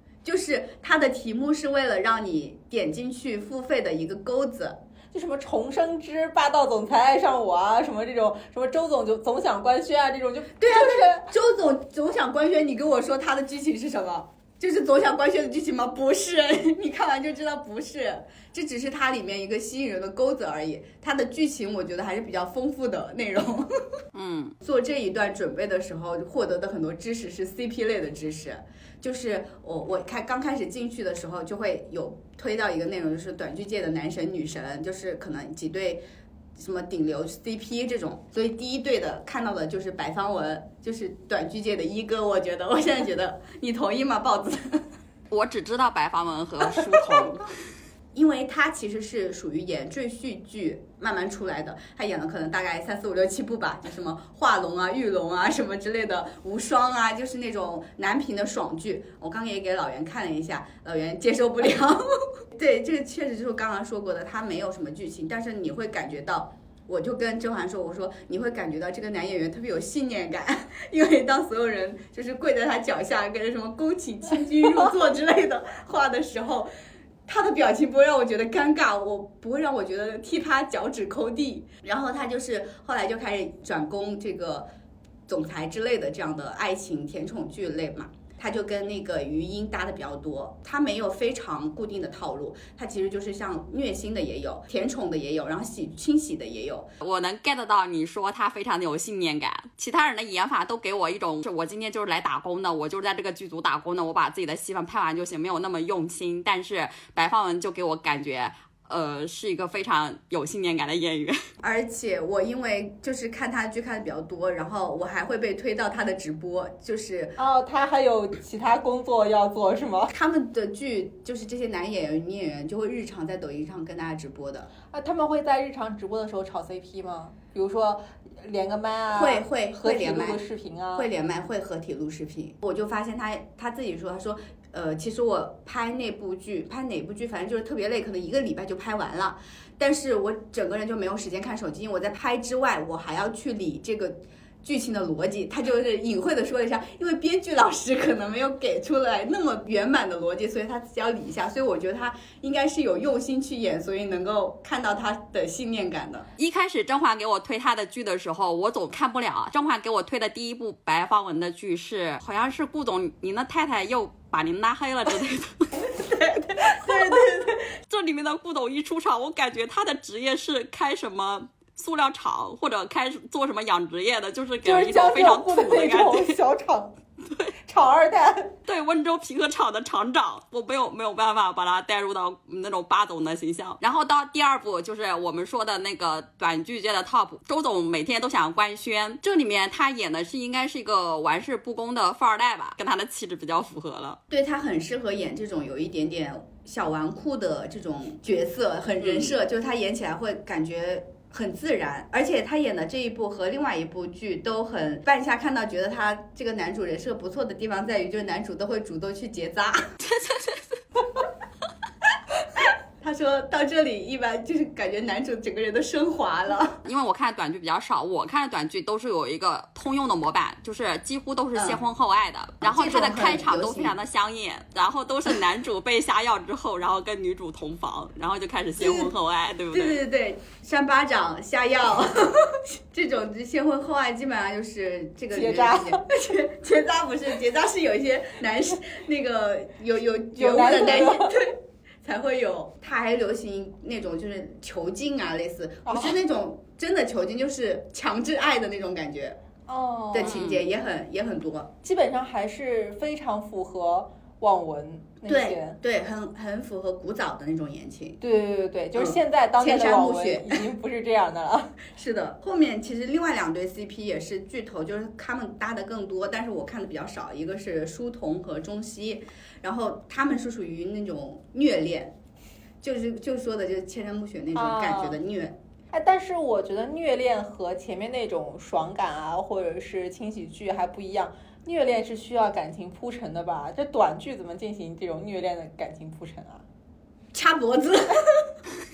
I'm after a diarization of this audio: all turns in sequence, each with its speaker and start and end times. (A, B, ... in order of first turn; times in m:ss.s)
0:00.2-0:04.8 A
0:05.1-0:11.3 B
0:10.6-0:23.7 A
0:24.1-0:24.5 C
0:24.6-0:36.0 A
0:36.6-0:44.9 A
0:45.3-0:47.5 C
0:48.1-1:16.7 A
1:17.2-1:24.7 A
1:25.3-1:36.9 A
1:37.0-1:51.4 C
1:51.6-1:57.4 A
1:57.4-2:00.1 B
2:00.1-2:04.7 A
2:04.9-2:11.1 B
2:09.1-2:10.4 A
2:10.9-2:36.3 A
2:36.4-2:45.9 C
2:45.9-2:47.7 A
2:47.9-2:56.4 C
2:54.6-2:56.9 B
2:57.3-2:57.5 C
2:57.6-2:58.5 B
2:58.7-3:14.2 C
3:14.3-3:29.9 A
3:19.0-3:19.3 C
3:30.1-3:30.6 C
3:33.0-3:36.8 A
3:36.8-3:50.0 C
3:41.5-3:41.8 A
3:42.6-3:44.0 A
3:48.8-3:49.1 A
3:49.7-4:09.4 A
3:55.3-3:56.0 B
4:00.3-4:01.3 B
4:05.9-4:06.2 B
4:09.7-4:10.4 B
4:10.1-4:11.7 A
4:10.2-4:10.6 C
4:11.8-4:15.8 B
4:15.2-4:18.2 A
4:18.2-4:21.8 B
4:19.0-4:20.6 A
4:21.9-4:32.2 A
4:32.8-4:35.6 A
4:34.5-4:35.2 B
4:35.9-4:46.6 B
4:47.3-4:48.6 A